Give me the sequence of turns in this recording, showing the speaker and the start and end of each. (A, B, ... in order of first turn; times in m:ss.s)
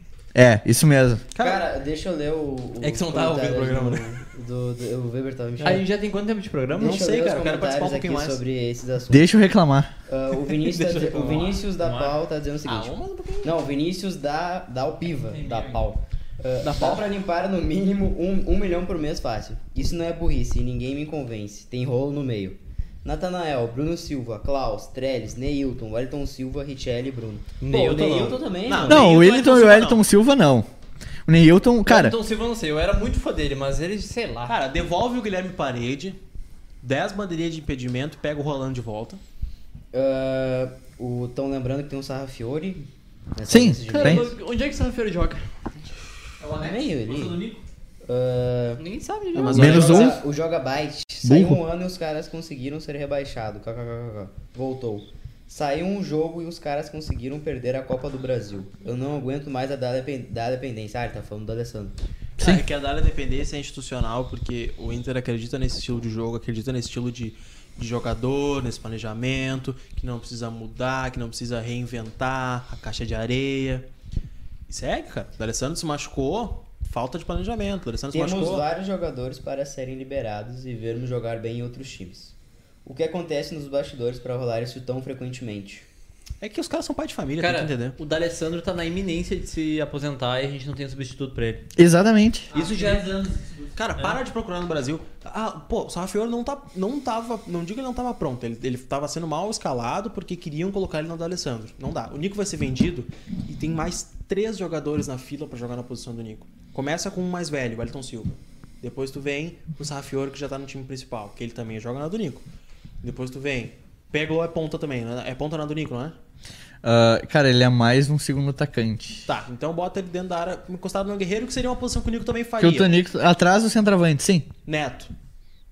0:00.4-0:01.3 A
0:01.3-0:01.7 B
0:01.4-0:05.9 C
0:02.8-0:04.2 B
0:05.6-0:07.0 D
0:06.8-0:08.4 B
0:06.8-0:09.3 C
0:09.1-0:09.9 A
0:10.1-0:29.1 C
0:10.6-0:11.6 B
0:11.8-0:12.2 D
0:12.6-0:13.6 B
0:15.1-0:15.9 D
0:16.6-0:17.1 B
0:27.6-0:28.5 D
0:28.7-0:30.0 B
0:28.9-0:30.7 A
0:31.3-0:32.2 A
0:31.9-0:34.6 D
0:34.5-0:36.2 B
0:36.8-0:39.2 B
0:39.9-0:44.3 C
0:43.5-0:44.3 A
0:43.9-0:45.5 D
0:46.4-0:47.6 E
0:46.6-0:47.5 C
0:48.0-0:48.8 C
0:48.8-0:50.0 D
0:49.3-0:50.2 B
0:49.4-1:02.0 C
0:49.5-0:50.2 A
0:51.2-0:51.6 A
1:02.4-1:02.6 A
1:02.4-1:13.9 B
1:14.7-1:18.7 B
1:18.1-1:25.9 C
1:26.4-1:28.0 B
1:27.4-1:31.7 D
1:31.8-1:32.5 A
1:32.5-1:33.2 D
1:32.5-1:33.7 E
1:33.8-1:52.5 B
1:53.0-1:56.2 B
1:56.8-1:59.3 A
1:59.3-2:02.9 B
2:02.6-2:04.5 A
2:04.6-2:05.1 B